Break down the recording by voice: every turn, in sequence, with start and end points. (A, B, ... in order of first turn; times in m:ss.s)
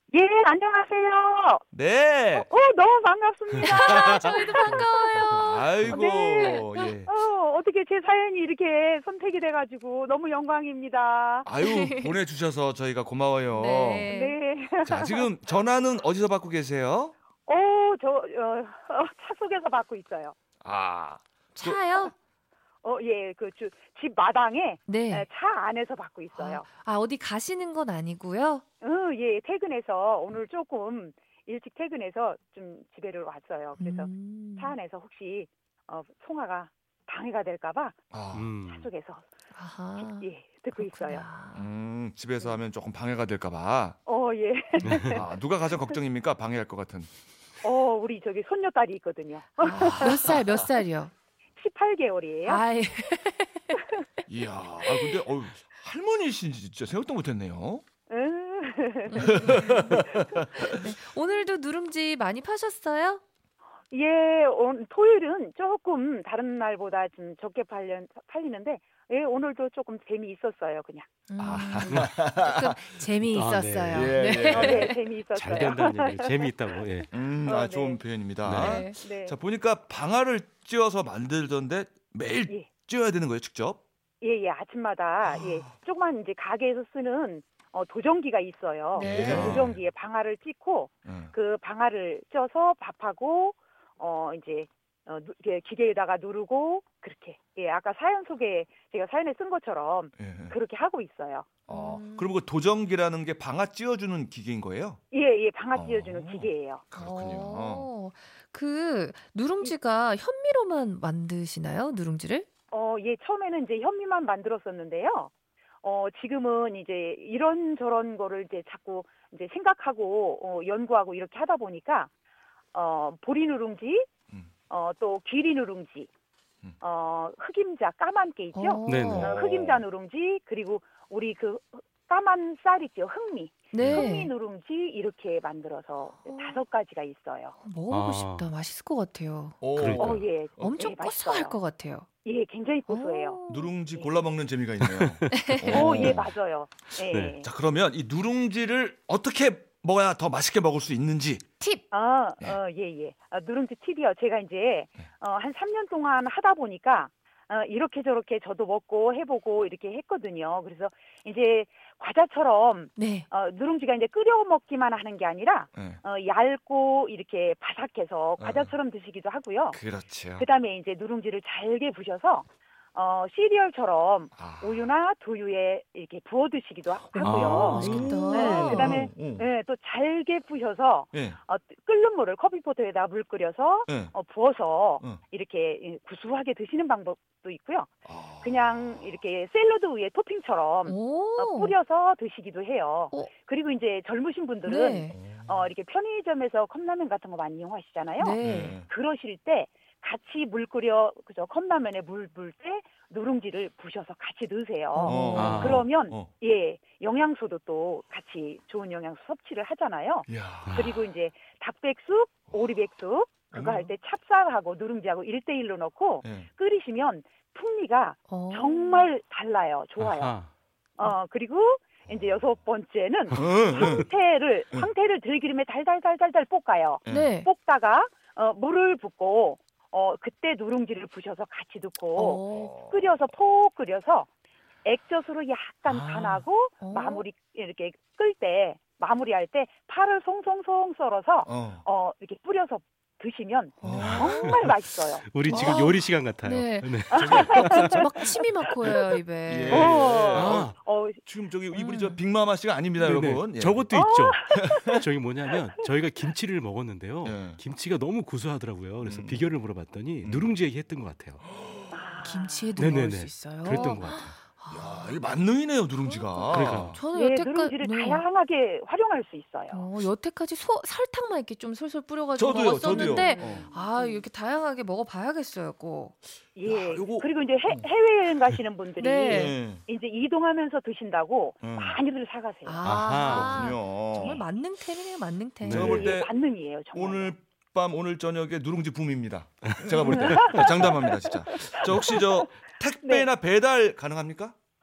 0:00.1-0:01.6 A
0:01.7-0:02.5 B
0:02.3-0:05.4 A
0:03.6-0:06.8 C
0:05.4-0:07.1 B
0:05.9-0:11.5 A
0:11.4-0:14.1 B
0:11.6-0:12.1 C
0:13.5-0:14.4 C
0:14.1-0:15.3 A
0:14.8-0:17.2 B
0:17.5-0:20.4 A
0:20.6-0:21.8 B
0:21.6-0:22.1 C
0:22.8-0:26.6 A
0:24.9-0:25.3 C
0:26.4-0:28.6 C
0:28.8-0:38.0 A
0:33.8-0:34.8 C
0:38.1-0:38.5 B
0:38.3-0:38.9 D
0:38.6-0:39.2 A
0:39.6-0:41.7 C
0:40.0-0:41.2 A
0:41.5-0:44.0 B
0:44.1-0:45.3 A
0:44.8-0:45.2 D
0:45.0-0:47.1 B
0:47.6-0:50.4 A
0:49.6-0:50.6 B
0:50.0-0:51.1 C
0:51.6-0:52.6 A
0:52.5-0:53.8 C
0:54.3-0:57.8 B
0:58.1-1:00.8 A
0:59.1-1:00.0 C
0:59.2-1:00.8 B
1:00.7-1:03.2 C
1:03.9-1:11.1 A
1:11.3-1:15.0 C
1:11.4-1:12.8 B
1:11.8-1:12.1 D
1:13.2-1:14.2 D
1:13.9-1:14.9 B
1:14.5-1:16.5 A
1:15.3-1:17.1 D
1:17.1-1:23.8 B
1:17.4-1:18.0 A
1:18.4-1:18.8 D
1:18.6-1:19.0 C
1:18.9-1:19.4 A
1:24.2-1:41.5 A
1:25.2-1:25.7 B
1:29.0-1:29.7 D
1:29.0-1:29.8 B
1:31.1-1:31.3 B
1:40.2-1:40.6 B
1:41.7-1:45.0 B
1:41.7-1:42.4 C
1:45.1-1:46.8 A
1:45.8-1:47.9 B
1:47.0-1:52.5 C
1:52.7-1:55.3 A
1:55.8-2:02.1 A
2:02.7-2:04.1 A
2:04.7-2:06.1 A
2:06.8-2:17.6 A
2:08.6-2:09.4 C
2:08.9-2:09.3 D
2:09.2-2:09.8 B
2:13.7-2:14.3 C
2:13.8-2:14.1 D
2:16.2-2:16.6 C
2:17.6-2:19.6 C
2:17.9-2:18.5 D
2:19.6-2:20.8 B
2:19.8-2:20.2 D
2:20.0-2:21.6 A
2:20.6-2:22.1 C
2:22.2-2:23.4 A
2:22.9-2:23.7 C
2:23.5-2:26.3 B
2:24.8-2:26.2 D
2:25.4-2:25.7 C
2:25.7-2:27.5 A
2:27.1-2:27.4 D
2:27.4-2:31.4 B
2:31.9-2:49.8 A
2:43.0-2:43.3 C
2:45.8-2:46.0 B
2:48.4-2:48.7 B
2:49.7-2:50.5 B
2:50.4-2:57.8 A
2:54.4-2:54.9 B
2:57.0-2:59.5 B
2:57.2-2:58.2 D
2:57.7-2:58.9 C
2:58.3-3:07.9 A
3:01.1-3:01.4 B
3:03.9-3:04.1 B
3:08.0-3:09.2 B
3:08.4-3:40.3 A
3:10.9-3:11.8 C
3:14.7-3:15.2 C
3:15.1-3:15.7 B
3:18.2-3:18.8 C
3:18.4-3:18.9 B
3:24.9-3:25.6 C
3:25.0-3:26.3 B
3:25.4-3:25.9 D
3:30.3-3:31.0 B
3:30.7-3:31.0 D
3:33.5-3:33.9 B
3:36.2-3:36.5 B
3:38.3-3:39.1 C
3:40.0-3:40.5 D
3:41.0-3:54.3 A
3:42.1-3:42.4 B
3:43.3-3:44.0 B
3:47.1-3:47.5 C
3:52.2-3:52.7 C
3:52.5-3:53.2 B
3:54.8-4:05.9 A
3:55.9-3:56.4 B
3:56.8-3:57.2 C
4:01.5-4:01.8 B
4:03.8-4:04.3 B
4:03.9-4:08.0 D
4:04.2-4:04.6 C
4:05.5-4:09.9 C
4:07.1-4:08.0 A
4:07.2-4:07.7 B
4:09.5-4:13.9 B
4:09.7-4:11.2 A
4:10.3-4:10.8 D
4:11.7-4:12.2 C
4:13.0-4:21.4 D
4:13.9-4:14.8 A
4:14.6-4:15.0 B
4:17.2-4:17.6 B
4:19.0-4:19.4 B
4:20.2-4:20.5 B
4:21.6-4:21.9 B
4:21.9-4:22.8 A
4:22.2-4:25.2 C
4:22.8-4:24.4 D
4:24.7-4:27.0 B
4:26.0-4:28.2 C
4:26.5-4:27.0 D
4:27.1-4:29.9 A
4:29.7-4:36.2 C
4:32.4-4:33.7 B
4:32.8-4:34.2 A
4:36.6-4:42.9 A
4:36.7-4:37.9 B
4:39.0-4:39.6 C
4:39.3-4:39.8 B
4:41.6-4:42.0 B
4:42.7-4:46.0 C
4:42.8-4:43.7 D
4:42.9-4:44.4 B
4:45.6-4:46.1 D
4:45.7-4:46.3 B
4:45.8-4:47.3 A
4:46.9-4:54.6 B
4:49.7-4:50.8 D
4:50.0-4:52.2 A